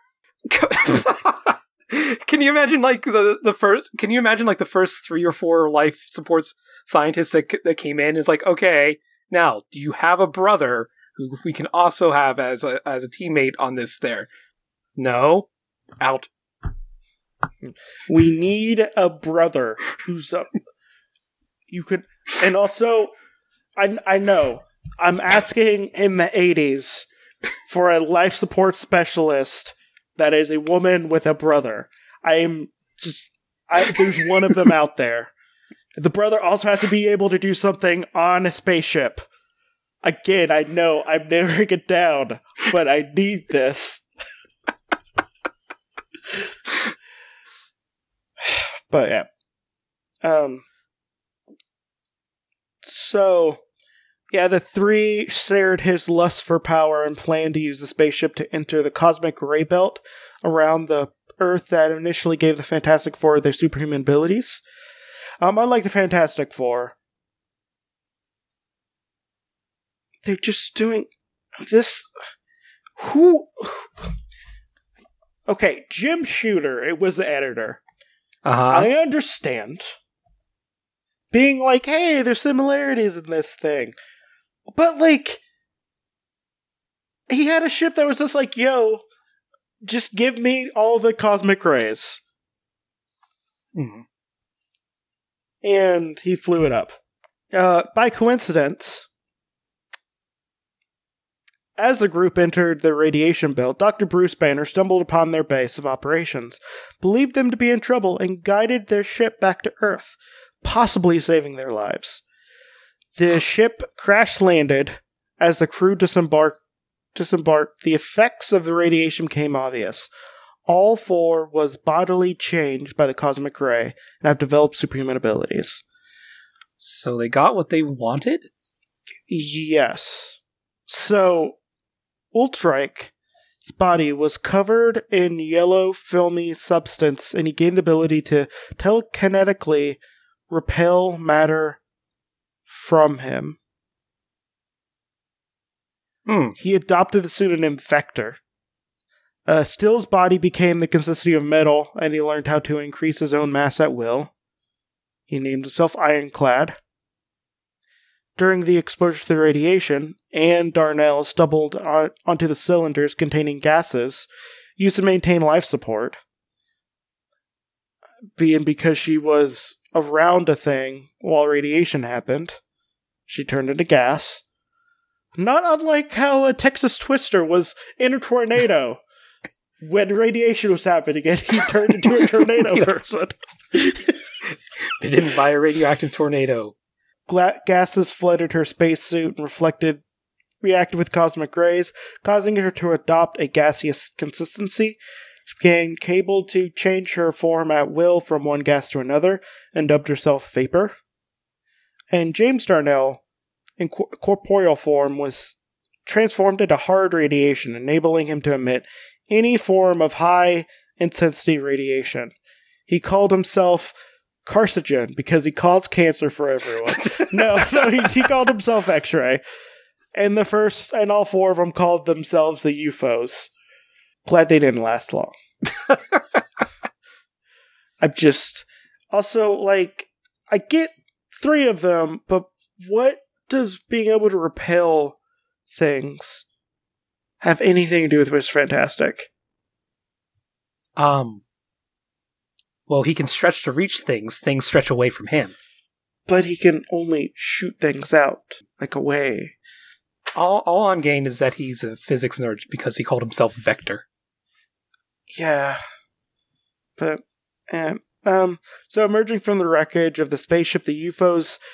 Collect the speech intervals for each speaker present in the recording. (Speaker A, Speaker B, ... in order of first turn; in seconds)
Speaker A: 0.5-14.3, 14.9-15.5, 16.0-16.3, 78.4-78.9, 93.8-94.0, 126.8-128.5, 146.2-146.6, 182.1-182.9, 185.0-186.7, 216.9-218.1, 225.9-226.2, 241.0-241.4, 242.9-245.6, 250.3-254.0
Speaker B: 18.1-20.5, 21.7-23.1, 23.8-27.1, 27.7-35.3, 36.0-39.2, 40.0-44.0, 48.4-49.3, 50.2-50.7, 52.8-53.6, 54.3-64.6, 65.4-66.9, 70.2-72.1, 73.0-74.1, 75.5-77.8, 78.7-79.9, 81.3-83.9, 84.7-85.4, 87.3-89.0, 89.8-92.2, 95.6-97.0, 97.5-99.1, 101.8-112.2, 113.2-116.6, 117.1-120.1, 120.7-125.8, 129.3-131.6, 132.3-133.1, 133.6-141.8, 142.7-143.6, 146.6-148.4, 149.5-154.3, 155.3-156.8, 158.4-166.2, 168.4-172.6, 173.3-174.4, 175.4-179.0, 179.8-183.3, 187.3-190.0, 190.6-201.0, 202.1-203.2, 203.8-212.3, 212.9-213.9, 214.4-219.4, 220.1-223.5, 224.2-225.3, 228.0-235.2, 235.7-236.4, 237.4-239.3, 246.3-249.6, 255.3-255.8, 257.0-261.6